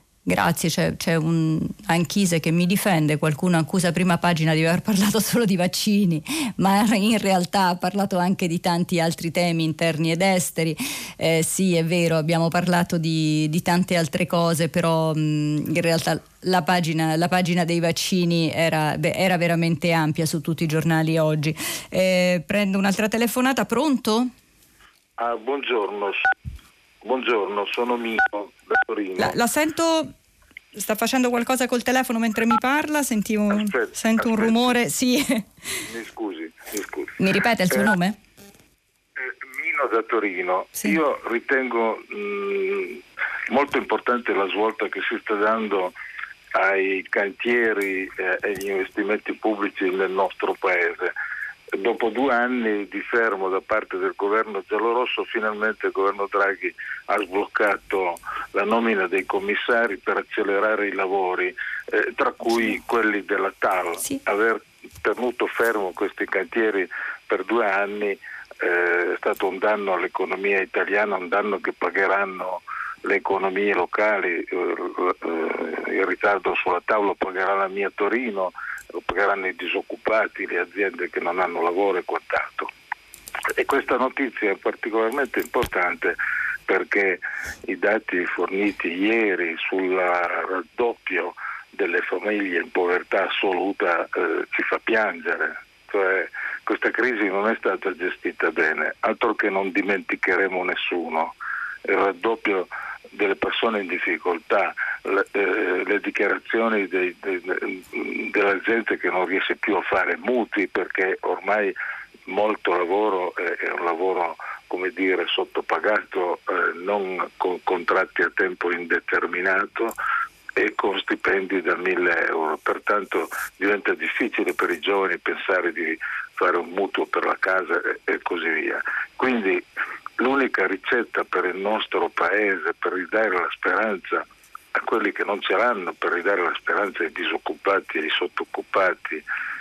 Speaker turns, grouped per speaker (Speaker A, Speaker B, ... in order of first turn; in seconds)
Speaker A: 0.3-24.3, 29.2-30.1, 30.8-35.5, 37.2-38.2
Speaker B: 25.2-26.3, 27.0-29.4, 33.5-34.8, 35.9-37.2, 39.5-45.9, 46.5-51.1, 51.8-82.7, 83.6-86.2, 86.7-101.3, 101.9-111.8, 112.3-119.9, 120.6-129.6, 130.2-139.2